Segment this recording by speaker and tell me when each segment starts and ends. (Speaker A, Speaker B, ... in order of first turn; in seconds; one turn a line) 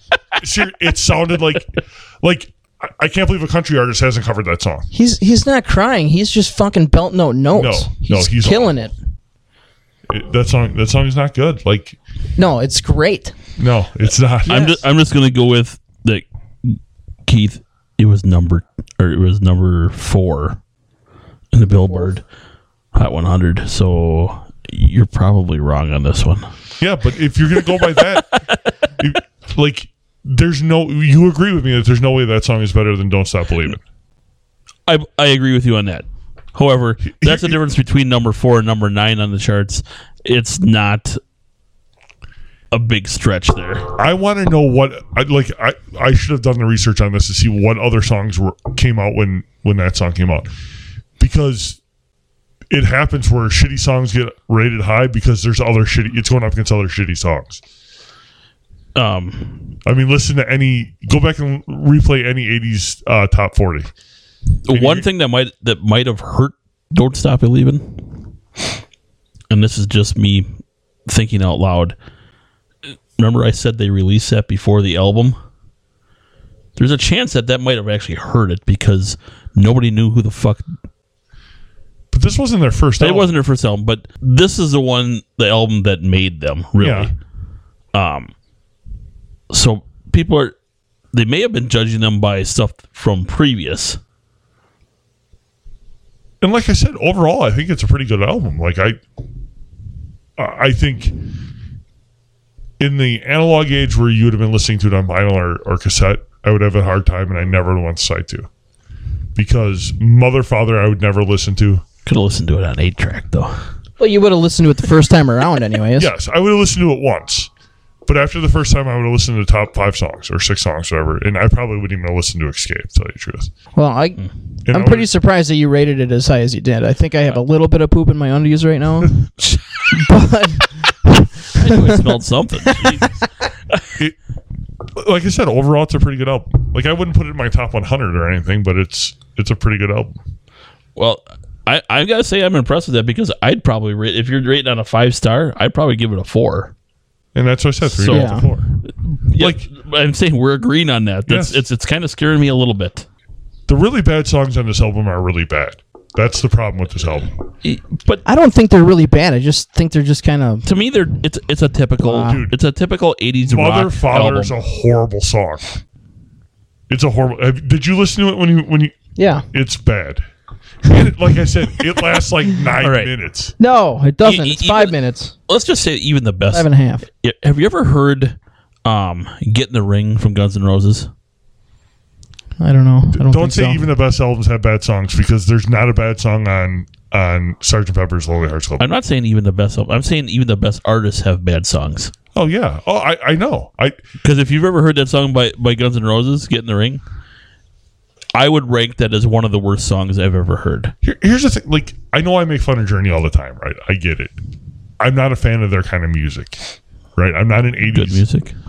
Speaker A: 0.3-4.9
Speaker B: 4.9-8.9
Speaker A: 7.5-8.7
Speaker A: 10.1-12.0
Speaker B: 12.4-13.3
Speaker A: 13.6-14.8
Speaker C: 14.4-20.6
Speaker B: 14.5-14.8
Speaker C: 21.5-22.2
Speaker B: 21.8-22.1
Speaker C: 22.9-26.5
Speaker A: 26.8-28.4
Speaker A: 29.0-33.8
Speaker C: 34.9-41.2
Speaker A: 37.0-37.6
Speaker C: 42.7-43.9
Speaker A: 44.0-50.5
Speaker A: 51.2-51.8
Speaker A: 52.7-57.6
Speaker C: 58.9-59.7
Speaker A: 59.8-63.9
Speaker C: 64.7-68.1
Speaker A: 64.7-65.1
Speaker C: 69.5-70.5
Speaker C: 71.0-71.9
Speaker C: 73.2-75.4
Speaker C: 76.8-80.7
Speaker A: 82.1-83.3
Speaker C: 83.0-87.1
Speaker A: 86.8-87.1
Speaker C: 87.9-88.3
Speaker C: 89.5-90.5
Speaker C: 91.1-94.0
Speaker A: 96.4-99.0
Speaker A: 100.4-101.1
Speaker A: 102.8-108.5
Speaker A: 109.3-111.8
Speaker C: 112.0-113.6
Speaker B: 114.0-116.1
Speaker A: 116.0-117.5
Speaker A: 118.0-123.5
Speaker B: 123.7-129.2
Speaker A: 124.7-125.1
Speaker B: 129.9-132.0
Speaker C: 131.5-133.2
Speaker B: 132.7-133.0
Speaker A: 134.9-140.2
Speaker C: 140.9-146.7
Speaker A: 147.3-148.8
Speaker C: 147.8-153.1
Speaker B: 148.1-148.4
Speaker A: 149.3-149.6
Speaker A: 151.3-151.6
Speaker A: 153.7-157.4
Speaker C: 157.6-158.2
Speaker B: 158.2-160.7
Speaker C: 160.7-164.5
Speaker B: 162.0-162.4
Speaker A: 162.3-162.5
Speaker A: 163.4-165.7
Speaker A: 166.9-169.0
Speaker B: 169.2-169.4
Speaker A: 169.5-170.2
Speaker A: 170.8-173.5
Speaker C: 172.8-173.1
Speaker B: 173.6-175.3
Speaker C: 174.2-174.9
Speaker C: 175.5-181.1
Speaker B: 176.5-177.0
Speaker B: 182.6-183.8
Speaker A: 183.1-188.9
Speaker C: 188.8-192.1
Speaker A: 192.3-194.0
Speaker C: 194.2-197.0
Speaker C: 198.3-200.9
Speaker A: 201.0-204.3
Speaker A: 205.0-206.6
Speaker A: 207.2-208.2
Speaker C: 207.9-208.5